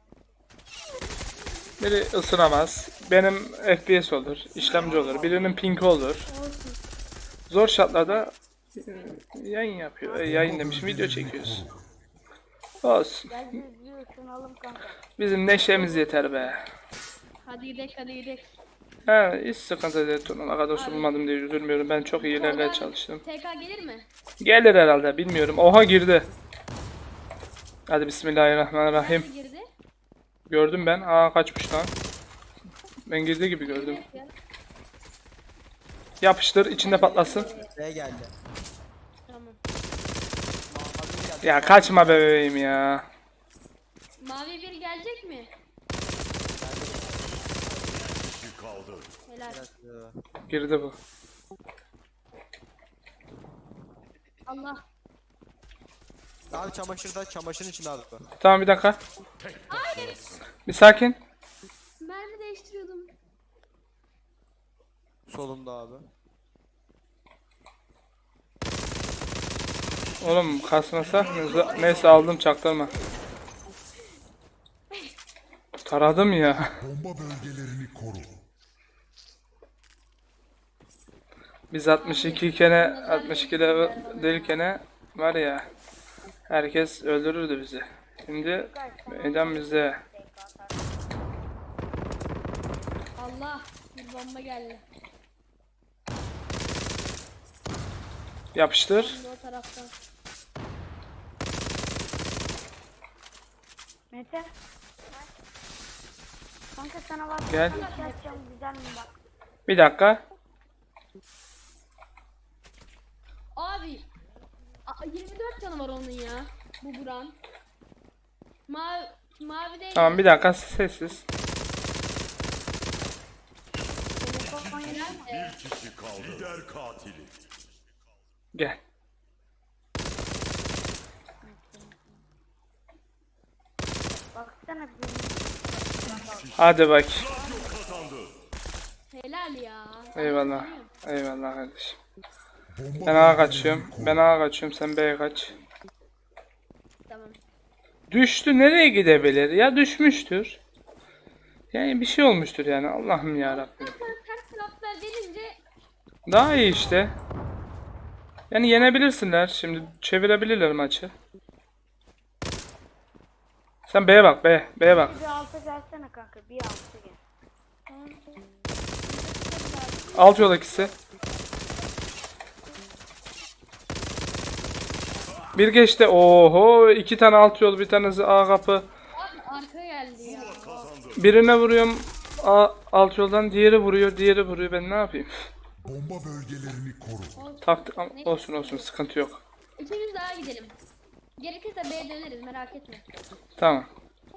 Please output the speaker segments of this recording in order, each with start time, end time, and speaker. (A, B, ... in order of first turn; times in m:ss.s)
0:01.8-0:06.3 A
0:06.3-0:06.8 B
0:07.5-0:11.6 A
0:10.2-0:11.9 C
0:12.8-0:13.4 A
0:13.3-0:15.0 D
0:15.2-0:16.6 A
0:17.4-0:18.5 B
0:19.1-0:23.2 A
0:20.7-0:21.1 B
0:22.2-0:24.1 B
0:24.4-0:26.3 A
0:27.9-0:29.3 A
0:28.9-0:29.6 B
0:30.5-0:31.9 A
0:33.1-0:34.0 A
0:33.6-0:34.3 B
0:36.2-0:37.5 A
0:36.8-0:37.6 B
0:37.6-0:38.3 E
0:39.3-0:39.6 B
0:40.7-0:42.2 E
0:41.4-0:43.0 A
0:44.2-0:45.5 B
0:46.6-0:48.2 E
0:48.3-0:49.0 F
0:49.3-0:49.6 B
0:49.4-0:50.2 E
0:50.5-0:51.0 A
0:54.4-0:54.8 B
0:56.5-0:58.3 E
0:58.4-0:59.0 A
0:59.5-0:59.8 F
0:59.7-1:00.3 B
1:00.6-1:01.2 A
1:02.0-1:03.1 B
1:05.3-1:06.1 E
1:10.2-1:12.9 A
1:11.3-1:12.2 B
1:15.8-1:16.8 A
1:16.8-1:18.4 C
1:21.7-1:25.7 A
1:21.9-1:24.6 B
1:26.5-1:30.0 A
1:28.4-1:30.9 D
1:33.2-1:34.8 B
1:38.5-1:39.2 A
1:38.9-1:39.9 B
1:44.1-1:44.5 D
1:46.7-1:49.1 D
1:47.5-1:47.8 A
1:47.7-1:48.4 B
1:49.7-1:50.2 A
1:53.5-1:54.1 B
1:54.8-1:57.4 B
1:58.7-2:00.5 B
1:59.9-2:01.2 A
2:04.2-2:05.5 D
2:04.8-2:05.6 B
2:05.5-2:07.5 F
2:08.5-2:08.8 A
2:11.4-2:12.2 D
2:14.1-2:16.5 D
2:16.6-2:17.3 A
2:17.2-2:18.3 F
2:17.3-2:18.1 D
2:19.1-2:20.9 B
2:20.2-2:22.0 A
2:22.7-2:24.2 C
2:23.0-2:25.5 A
2:27.1-2:27.4 B
2:28.1-2:30.6 A
2:31.7-2:34.0 A
2:33.4-2:35.6 B
2:36.3-2:37.1 A
2:36.5-2:37.0 B
2:38.5-2:41.1 A
2:43.9-2:45.1 A
2:44.8-2:47.2 D
2:47.9-2:48.2 B
2:49.0-2:50.8 B
2:50.1-2:50.9 A
2:55.6-2:58.9 A
2:59.2-3:00.9 B
3:00.4-3:01.0 F
3:01.2-3:05.3 A
3:05.8-3:07.4 C
3:07.3-3:08.9 B
3:07.6-3:09.4 A
3:09.8-3:10.7 B
3:11.4-3:13.0 B
3:13.6-3:13.9 A